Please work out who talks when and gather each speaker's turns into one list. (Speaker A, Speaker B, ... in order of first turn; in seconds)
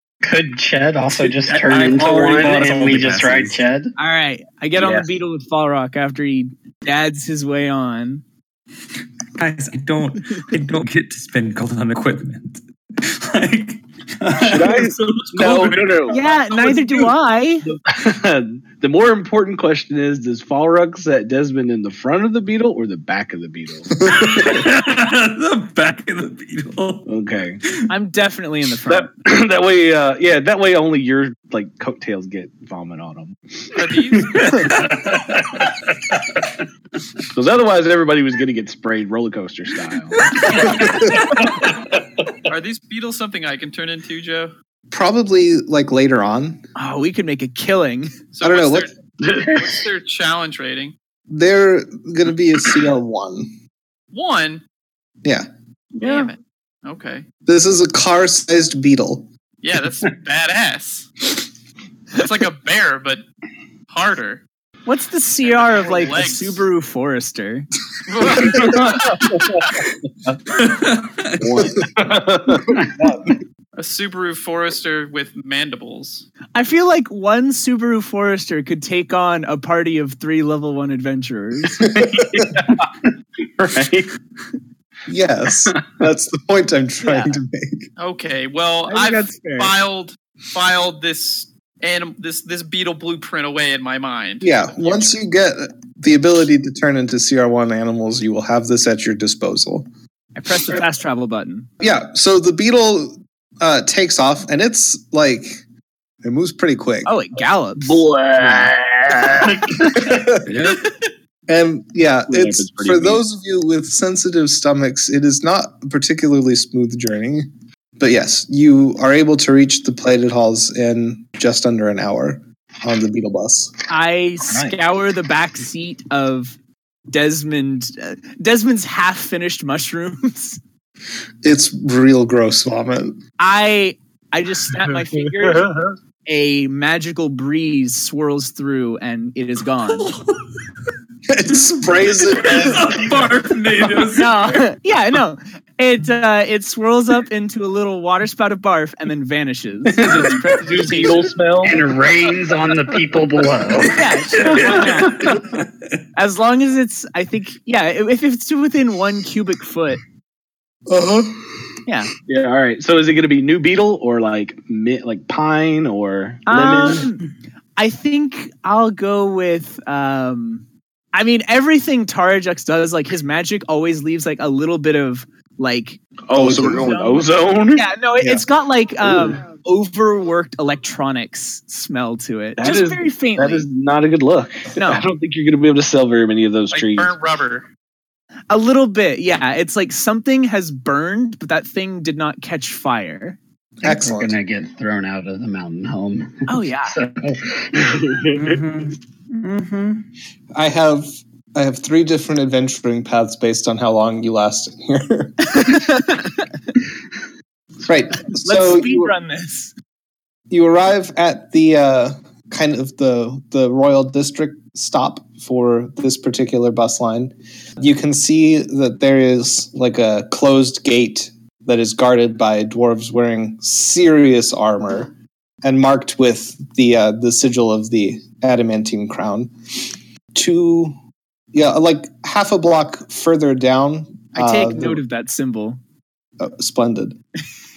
Speaker A: 0.2-3.9, 49.2-49.8, 151.6-154.1, 193.8-198.2
Speaker B: 1.1-3.6, 9.3-16.0, 24.1-27.1, 34.4-34.9, 70.5-71.6, 110.4-110.8, 140.0-140.2, 142.3-144.4, 198.3-200.0
Speaker C: 4.0-8.2, 16.1-17.6, 27.9-29.1, 46.8-48.1, 64.8-67.7, 76.5-81.9, 87.0-87.3, 88.9-89.7, 100.3-101.7, 107.0-108.0, 123.9-126.6, 127.1-130.6, 133.4-135.7, 136.3-140.1, 144.1-151.3, 153.9-155.3, 156.1-160.0, 161.8-162.1, 166.5-167.2, 167.8-183.7, 184.7-185.0, 188.5-193.4, 196.5-196.9, 205.5-206.3, 208.4-209.7, 234.3-235.8
Speaker D: 4.8-5.0, 14.4-17.1, 17.7-24.0, 27.1-27.6, 28.9-33.4, 37.3-41.2, 68.3-69.8, 71.4-72.8, 81.9-82.9, 83.6-84.1, 107.8-110.0, 112.3-113.2, 149.8-151.9, 154.4-155.4, 162.3-167.1, 176.3-177.8, 182.6-187.1
Speaker E: 33.7-34.7, 42.5-44.5, 48.3-50.9, 54.1-54.6, 56.0-57.2, 59.6-61.1, 62.1-63.2, 63.9-64.4, 65.4-66.6, 68.1-69.2, 73.8-76.2, 88.0-95.1, 186.7-187.7
Speaker F: 44.9-46.6, 48.4-48.9, 51.3-53.5, 57.5-59.3, 82.0-82.4, 85.1-87.9, 94.4-99.9, 101.8-105.6, 106.2-107.1, 109.8-110.5, 111.5-123.7, 131.4-133.2, 141.3-143.2, 160.9-161.5, 176.3-176.9, 178.2-178.4, 193.8-194.3, 200.5-205.8, 207.9-209.1, 210.5-225.1, 225.6-231.0, 231.5-235.0, 236.4-237.2